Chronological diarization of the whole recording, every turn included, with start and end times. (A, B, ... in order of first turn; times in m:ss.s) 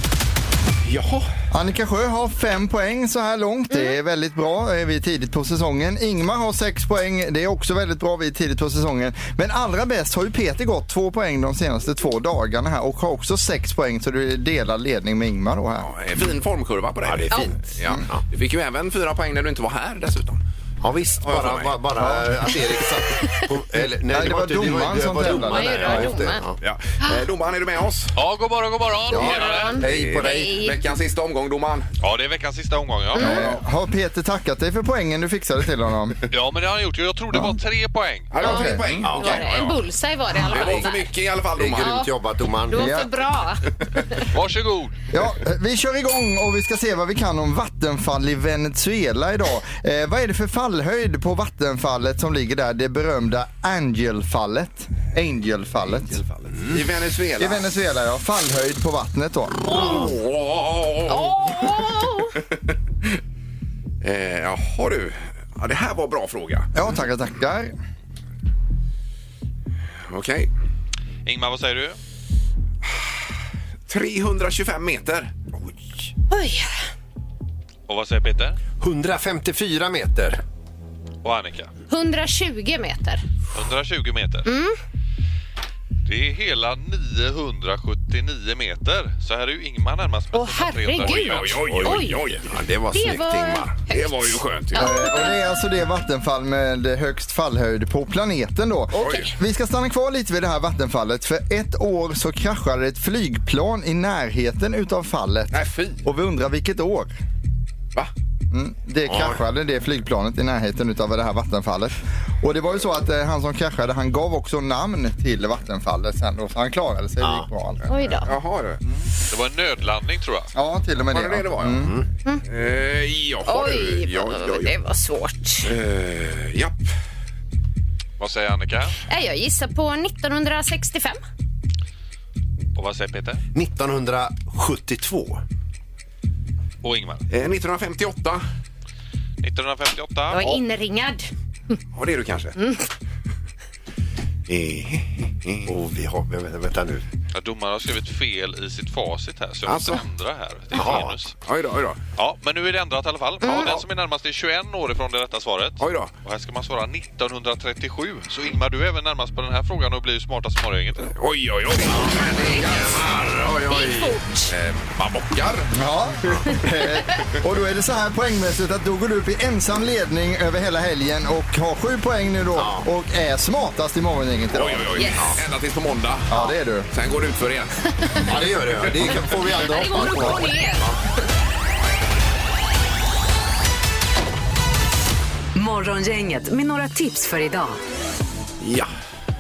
0:00.8-0:01.3 A
0:01.5-0:15.9 B
0:15.8-0:20.4 A
0:17.0-0:18.2 C
0:20.8-0:26.6 C
0:21.2-0:21.8 A
0:22.0-0:22.3 B
0:24.1-0:26.1 B
0:25.2-0:26.4 D
0:26.6-0:28.2 A
0:28.2-0:29.8 E
0:29.1-0:30.6 C
0:29.1-0:31.9 A
0:29.2-0:30.8 D
0:32.0-0:33.5 E
0:33.1-0:33.5 D
0:33.2-0:36.2 B
0:36.3-0:38.3 E
0:38.3-0:39.8 A
0:38.4-0:38.8 B
0:38.4-0:41.1 D
0:39.0-0:39.4 C
0:40.5-0:42.0 A
0:41.6-0:43.1 C
0:41.8-0:42.1 D
0:42.7-0:44.2 D
0:42.7-0:43.1 B
0:44.2-0:45.0 E
0:45.1-0:56.2 B
0:55.8-0:57.6 A
0:57.4-0:59.6 B
0:59.7-1:02.4 A
0:59.7-1:00.1 D
1:01.1-1:02.4 D
1:04.0-1:06.9 A
1:06.8-1:07.7 B
1:10.1-1:10.5 A
1:11.3-1:12.0 E
1:13.9-1:15.3 A
1:15.5-1:15.9 C
1:16.3-1:16.8 D
1:17.9-1:18.6 E
1:18.8-1:20.4 C
1:21.2-1:21.7 E
1:21.9-1:23.2 D
1:23.5-1:24.5 E
1:24.4-1:24.8 D
1:26.1-1:31.7 E
1:30.3-1:32.2 D
1:31.0-1:32.5 A
1:31.7-1:33.9 C
1:32.9-1:34.1 D
1:33.9-1:35.3 A
1:34.7-1:35.3 D
1:34.8-1:47.1 B
1:38.9-1:39.3 D
1:39.0-1:39.3 A
1:45.5-1:46.0 A
1:48.5-1:57.8 B
1:49.0-1:49.4 C
1:57.2-1:57.5 C
1:57.8-1:58.8 A
1:57.9-1:58.3 D
1:59.3-2:00.5 E
2:00.6-2:01.9 B
2:01.1-2:01.9 A
2:01.8-2:02.1 C
2:02.5-2:04.7 A
2:03.5-2:05.7 D
2:05.6-2:06.9 A
2:08.2-2:08.9 E
2:09.1-2:11.2 D
2:12.8-2:13.4 E
2:13.5-2:15.4 C
2:16.8-2:17.2 E
2:17.3-2:18.4 A
2:19.4-2:20.5 E
2:20.3-2:21.3 D
2:21.9-2:22.6 A
2:24.5-2:25.7 A
2:25.7-2:27.0 C
2:27.4-2:31.3 E
2:29.7-2:30.0 A
2:30.7-2:31.2 C
2:30.8-2:32.0 A
2:32.2-2:41.1 E
2:33.4-2:33.7 D
2:33.4-2:33.8 A
2:35.8-2:36.1 A
2:41.2-2:45.8 A
2:43.7-2:44.5 D
2:45.8-2:55.0 B
2:52.6-2:52.9 C
2:54.5-2:57.9 A
2:55.0-2:55.3 D
2:56.3-2:56.9 B
2:58.2-3:01.0 C
2:59.5-3:00.9 D
3:05.6-3:07.8 F
3:08.6-3:08.9 A